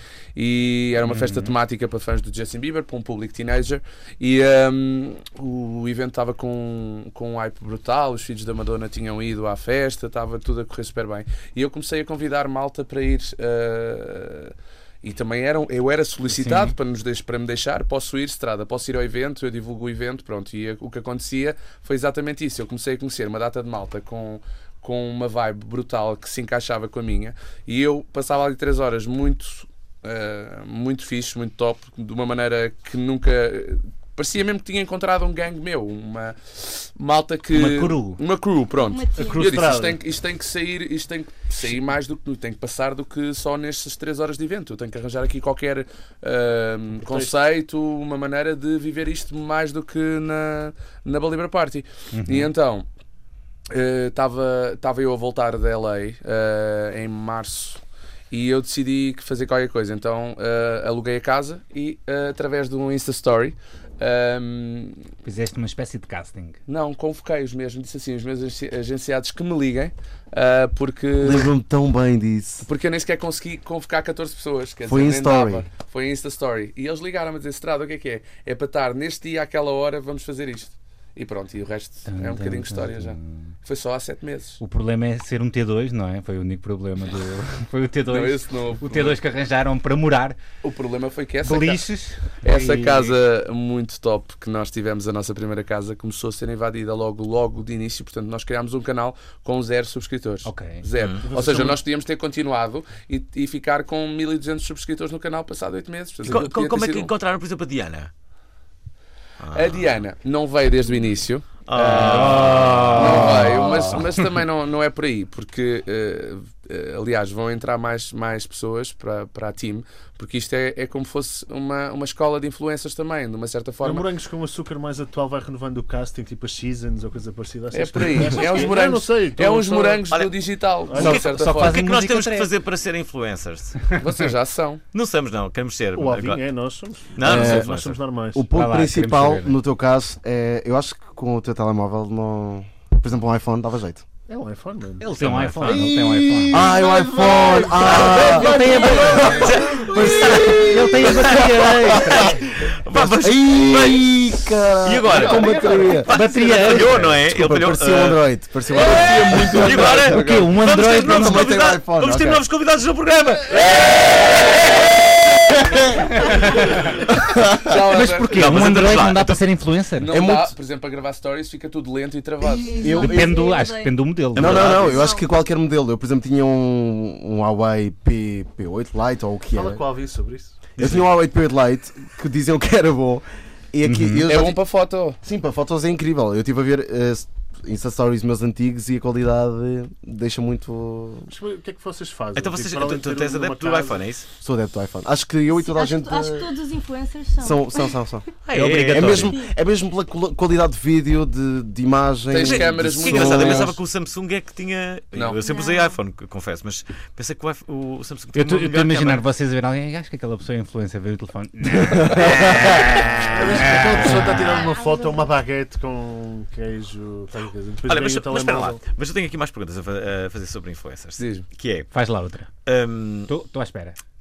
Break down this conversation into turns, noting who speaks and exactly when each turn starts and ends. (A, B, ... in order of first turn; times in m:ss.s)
0:00.3-0:52.8 A
0:01.0-0:01.5 B
0:16.3-0:16.7 B
0:37.5-0:38.2 B
0:38.9-0:39.6 C
0:39.2-0:40.0 D
0:47.0-0:47.3 D
0:52.1-0:52.5 B
0:53.7-1:05.0 A
1:05.2-1:06.6 B
1:06.7-1:11.5 A
1:11.2-1:12.7 E
1:12.6-1:24.6 A
1:14.8-1:15.7 E
1:22.0-1:23.5 B
1:24.6-1:30.4 B
1:28.1-1:29.2 A
1:30.6-1:31.8 A
1:31.4-1:33.2 B
1:32.4-1:47.1 A
1:40.4-1:40.8 B
1:41.3-1:41.8 D
1:46.2-1:48.1 F
1:49.4-1:49.9 F
1:49.5-2:04.1 A
1:51.6-1:54.0 F
1:51.8-1:54.2 B
2:03.8-2:10.0 D
2:07.7-2:11.8 A
2:10.1-2:10.4 F
2:10.9-2:11.2 D
2:11.0-2:12.5 B
2:11.0-2:13.9 F
2:14.0-2:14.8 A
2:14.9-2:16.4 F
2:15.9-2:18.4 D
2:17.1-2:18.0 F
2:17.2-2:17.7 E
2:18.3-2:24.0 E
2:18.5-2:19.6 B
2:24.3-2:26.8 D
2:25.0-2:26.6 B
2:25.2-2:25.9 F
2:25.6-2:32.4 E
2:27.7-2:34.2 F
2:28.0-2:32.4 B
2:32.9-2:40.1 E
2:34.8-2:38.2 F
2:35.2-2:35.9 D
2:36.1-2:37.2 B
2:38.7-2:40.5 A
2:38.7-2:45.0 F
2:40.0-2:41.5 B
2:40.9-2:42.4 E
2:45.7-2:46.1 E
2:46.4-2:46.6 B
2:47.0-2:47.8 E
2:47.6-2:48.5 A
2:47.9-2:50.1 B
2:48.3-2:49.4 F
2:50.0-2:52.8 A
2:50.1-2:50.5 E
2:52.5-2:54.0 C
2:52.6-2:53.4 E
2:52.9-2:54.8 B
2:54.4-2:55.1 F
2:54.4-2:59.8 E
2:54.7-2:55.3 C
2:59.5-3:00.6 D
3:00.8-3:04.6 E
3:00.8-3:01.0 F
3:03.8-3:04.3 B
3:04.3-3:05.2 A
3:05.2-3:11.3 E
3:11.3-3:14.0 D
3:12.3-3:14.2 F
3:14.4-3:16.5 E
3:15.5-3:18.0 C
3:17.4-3:23.8 E
3:18.4-3:19.4 F
3:18.5-3:19.3 B
3:22.3-3:23.8 A
3:22.4-3:29.2 F
3:25.1-3:25.4 A
3:25.4-3:26.0 C
3:28.3-3:32.8 B
3:32.0-3:32.8 E
3:32.1-3:33.8 F
3:33.2-3:38.8 D
3:33.6-3:34.4 B
3:34.2-3:35.4 C
3:37.9-3:41.9 F
3:41.2-3:41.4 A
3:41.9-3:42.5 B
3:42.6-3:43.3 F
3:43.3-3:44.0 B